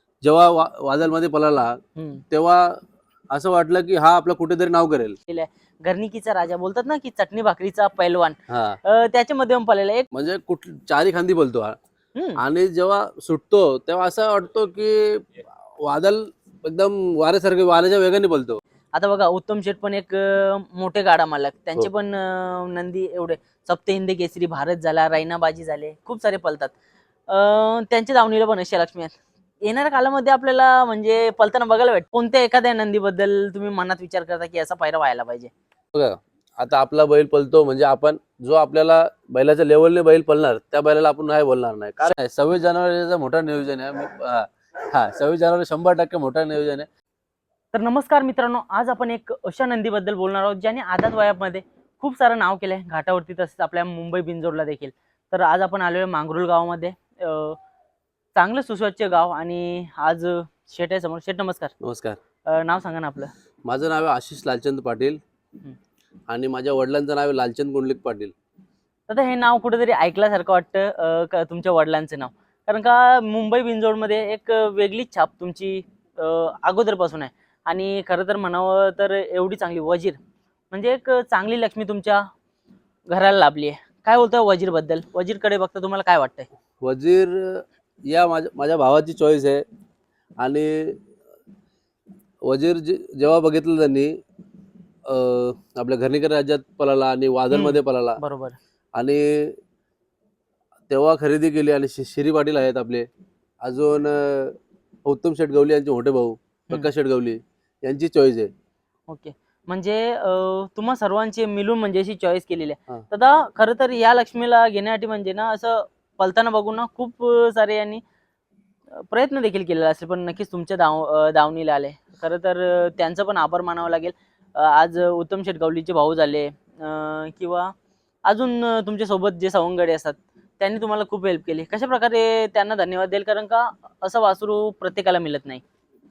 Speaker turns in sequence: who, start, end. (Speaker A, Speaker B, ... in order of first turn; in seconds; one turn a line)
Speaker A: 0.2-1.8
Speaker B: 2.0-2.2
Speaker A: 2.3-5.2
Speaker B: 5.3-10.1
Speaker A: 8.5-8.8
Speaker A: 10.1-11.8
Speaker B: 12.2-12.4
Speaker A: 12.4-15.2
Speaker A: 15.8-18.6
Speaker B: 18.9-26.7
Speaker B: 27.3-35.5
Speaker A: 35.9-46.9
Speaker B: 47.7-57.6
Speaker B: 58.3-61.7
Speaker A: 61.8-62.2
Speaker B: 62.5-63.3
Speaker A: 63.7-65.2
Speaker A: 66.3-68.3
Speaker B: 69.1-80.2
Speaker B: 80.7-82.3
Speaker B: 83.1-86.5
Speaker A: 86.8-89.6
Speaker A: 90.4-91.0
Speaker A: 92.5-94.2
Speaker A: 95.1-98.2
Speaker B: 97.5-98.6
Speaker A: 99.0-99.6
Speaker A: 100.9-103.1
Speaker A: 103.6-108.5
Speaker B: 109.1-118.0
Speaker B: 118.9-127.7
Speaker B: 128.2-135.6